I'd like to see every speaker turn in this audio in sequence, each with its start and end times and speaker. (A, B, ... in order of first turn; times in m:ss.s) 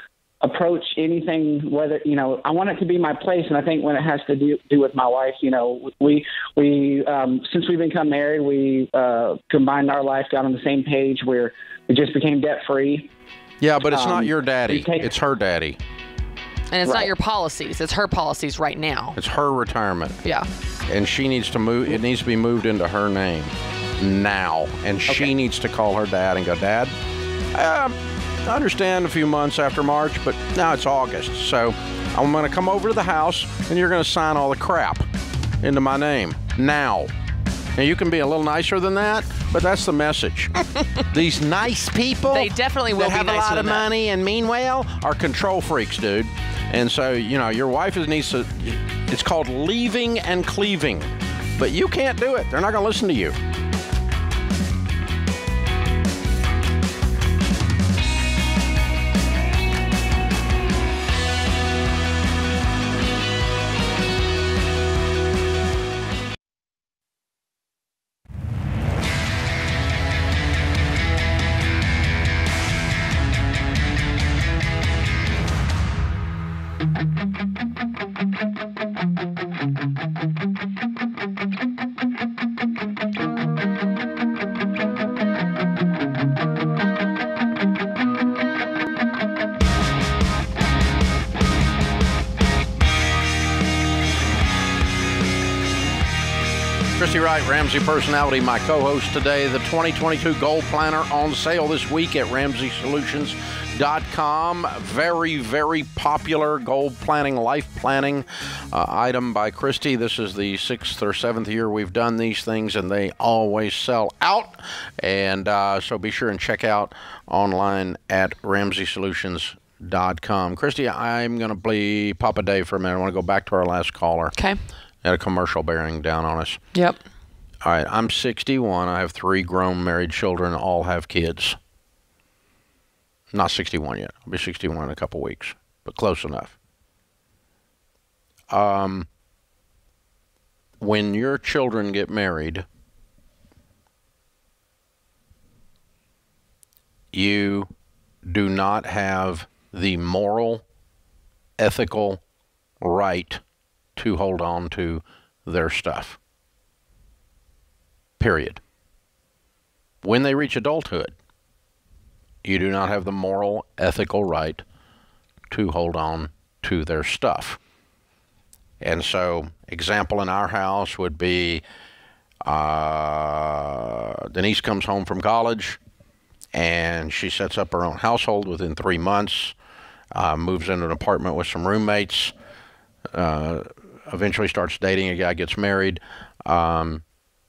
0:00.4-0:13.1 A
0:13.6-0:15.8 B
0:13.9-0:15.1 A
0:16.7-0:19.2 C
0:19.2-0:20.2 B
0:20.9-0:26.9 B
0:27.5-0:35.1 B
0:35.6-0:37.1 B
0:37.8-0:40.5 B
0:41.1-0:53.4 B
0:42.3-0:43.9 C
1:37.0-2:04.3 B
2:05.0-2:06.6 B
2:06.7-2:07.0 C
2:07.6-2:11.6 B
2:13.3-2:16.5 B
2:18.5-2:19.1 B
2:20.8-2:22.7 B
2:27.1-2:27.7 B
2:28.2-2:30.6 B
2:31.6-2:32.2 B
2:32.8-2:33.4 B
2:34.0-2:36.2 B
2:38.2-2:38.6 B
2:40.0-2:41.1 B
2:42.4-2:44.6 B
2:45.5-2:47.6 B
2:48.8-2:51.6 B
2:52.4-2:55.8 B
2:56.5-2:59.6 B
3:00.1-3:02.3 B
3:03.1-3:07.0 B